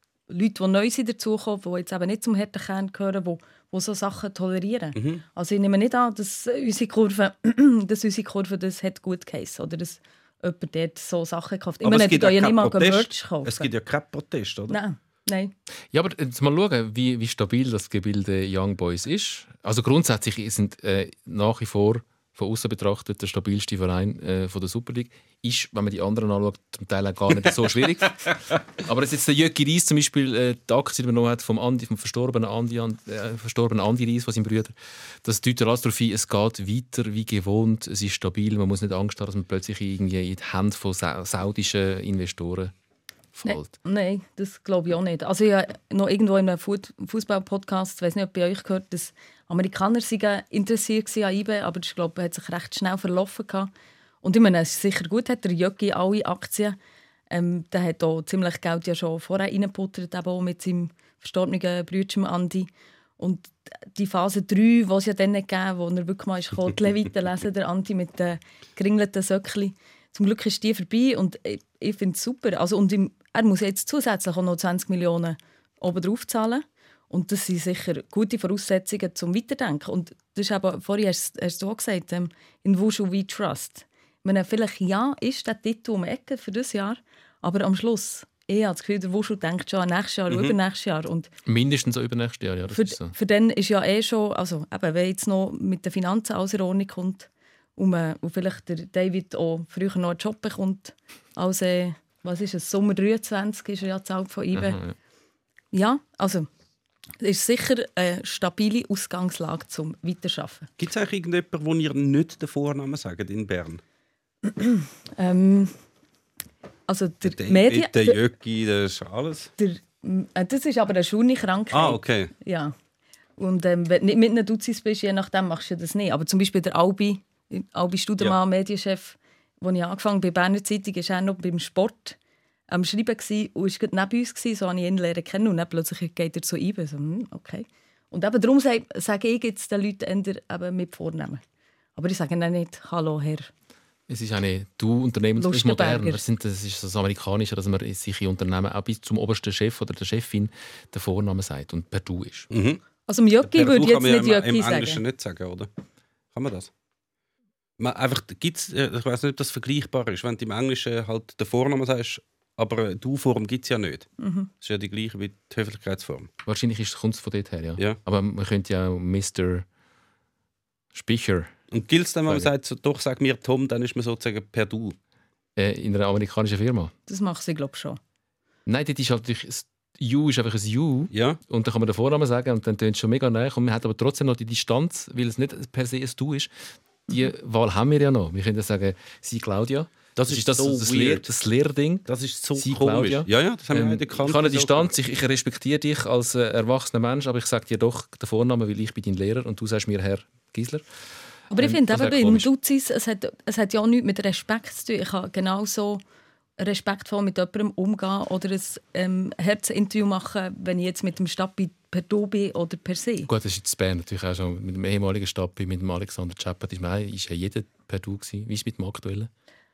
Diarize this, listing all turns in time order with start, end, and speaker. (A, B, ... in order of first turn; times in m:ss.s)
0:00.3-0:13.7 A
0:05.0-0:05.2 B
0:11.8-0:14.8 B
0:14.7-0:15.5 A
0:15.9-0:42.7 C
0:43.3-0:43.7 C
0:43.4-0:53.7 A
0:54.2-0:56.8 A
0:57.3-1:31.3 A
1:30.3-1:30.5 B
1:31.5-1:33.1 C
1:32.7-1:44.8 A
1:44.5-1:44.9 C
1:45.7-1:46.5 A
1:47.2-1:50.7 A
1:50.8-1:53.8 B
1:54.4-1:55.8 A
1:56.9-1:58.2 A
1:57.2-1:59.5 B
1:59.6-2:02.7 A
2:01.7-2:02.3 B
2:03.4-2:12.2 A
2:12.7-2:21.4 A
2:22.0-2:23.5 A
2:24.1-2:32.5 C
2:25.4-2:26.2 A
2:32.5-2:32.8 B
2:33.1-2:35.0 A
2:33.4-2:35.7 B
2:36.3-2:36.7 B
2:37.8-2:44.1 B
2:44.2-2:44.5 A
2:44.6-2:46.3 B
2:46.4-2:49.6 C
2:50.9-2:51.5 C
2:51.7-2:55.0 B
2:55.6-2:56.9 C
2:57.1-2:58.0 A
2:58.6-3:06.5 C
3:01.1-3:01.4 B
3:07.1-3:20.8 C
3:10.2-3:11.3 B
3:12.0-3:14.9 B
3:21.5-3:26.0 A
3:21.6-3:22.5 C
3:26.6-3:33.3 A
3:33.3-3:39.3 C